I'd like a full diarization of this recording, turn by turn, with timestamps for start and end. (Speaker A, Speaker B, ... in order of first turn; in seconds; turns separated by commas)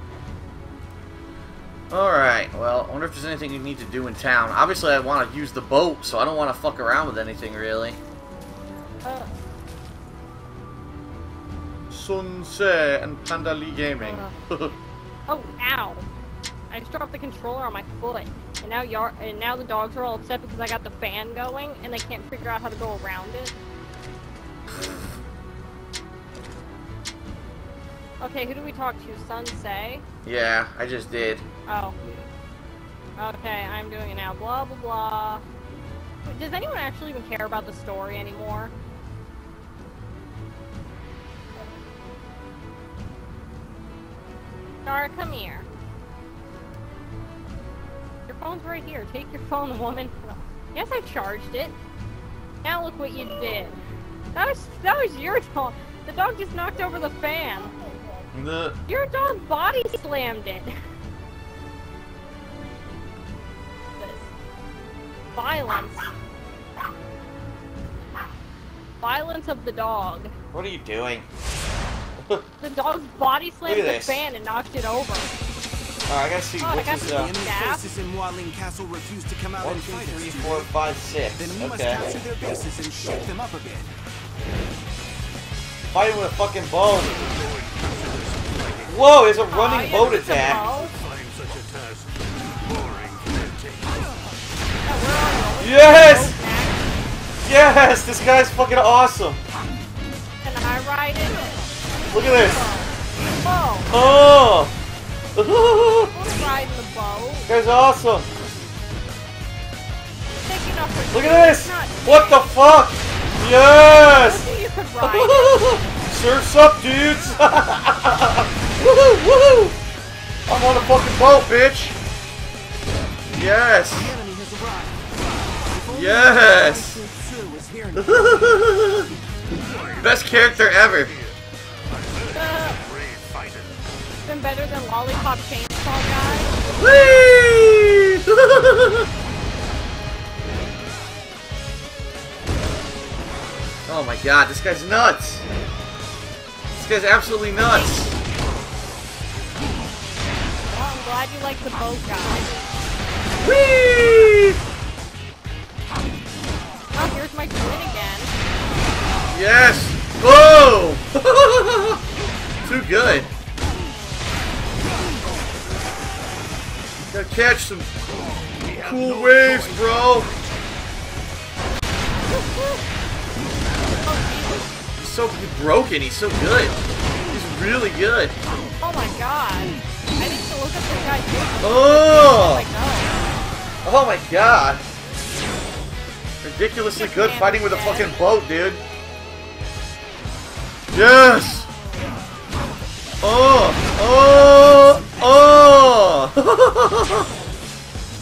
Speaker A: 1.9-8.0, Speaker B: 9.0-9.3, Speaker A: 11.9-14.8, Speaker B: 14.0-14.3, Speaker B: 15.3-16.1, Speaker B: 16.7-23.5, Speaker A: 24.7-25.0, Speaker B: 28.2-30.0, Speaker A: 30.2-31.4, Speaker B: 31.7-31.9, Speaker B: 33.2-35.4, Speaker B: 36.2-38.7, Speaker B: 44.8-45.7, Speaker B: 48.3-51.7, Speaker B: 52.6-53.8, Speaker B: 54.3-57.7, Speaker A: 58.3-58.8, Speaker B: 58.9-60.7, Speaker B: 64.0-64.3, Speaker B: 65.3-66.0, Speaker B: 69.0-70.3, Speaker A: 70.5-71.3, Speaker B: 72.6-75.3, Speaker A: 73.6-74.2, Speaker A: 76.1-77.3, Speaker B: 76.6-77.8, Speaker C: 76.8-80.7, Speaker A: 79.6-82.0, Speaker C: 81.3-83.9, Speaker A: 85.9-87.3, Speaker D: 87.3-88.9, Speaker A: 88.9-90.6, Speaker B: 89.5-90.9, Speaker D: 90.0-94.0, Speaker B: 94.8-96.8, Speaker A: 95.6-96.4, Speaker A: 97.4-99.4, Speaker B: 100.4-101.5, Speaker A: 102.1-102.7, Speaker B: 102.3-102.9, Speaker B: 103.4-103.9, Speaker A: 103.9-104.7, Speaker A: 105.3-106.1, Speaker B: 106.1-107.5, Speaker A: 107.5-108.3, Speaker B: 110.4-112.5, Speaker A: 111.1-114.5, Speaker B: 114.1-115.7, Speaker A: 115.0-119.8, Speaker A: 120.5-122.0, Speaker A: 123.3-124.1, Speaker C: 123.9-125.0, Speaker C: 125.7-128.2, Speaker A: 125.9-127.0, Speaker A: 128.0-129.1, Speaker D: 129.7-131.3, Speaker A: 130.0-131.1, Speaker D: 132.0-133.8, Speaker B: 132.3-132.8, Speaker B: 134.2-136.6, Speaker A: 136.8-139.1, Speaker A: 143.9-145.4, Speaker A: 146.7-148.2, Speaker B: 150.7-152.5, Speaker A: 153.4-154.6, Speaker B: 156.9-158.3, Speaker A: 159.3-162.0, Speaker A: 162.6-163.3, Speaker A: 167.1-167.9, Speaker D: 168.6-169.9, Speaker A: 168.7-170.3, Speaker B: 174.0-174.7, Speaker A: 175.0-178.3, Speaker B: 178.8-183.1, Speaker A: 181.6-182.7, Speaker A: 183.8-184.8, Speaker A: 186.4-188.8, Speaker B: 186.9-188.2, Speaker A: 190.9-191.7, Speaker A: 193.2-197.3, Speaker B: 195.2-195.6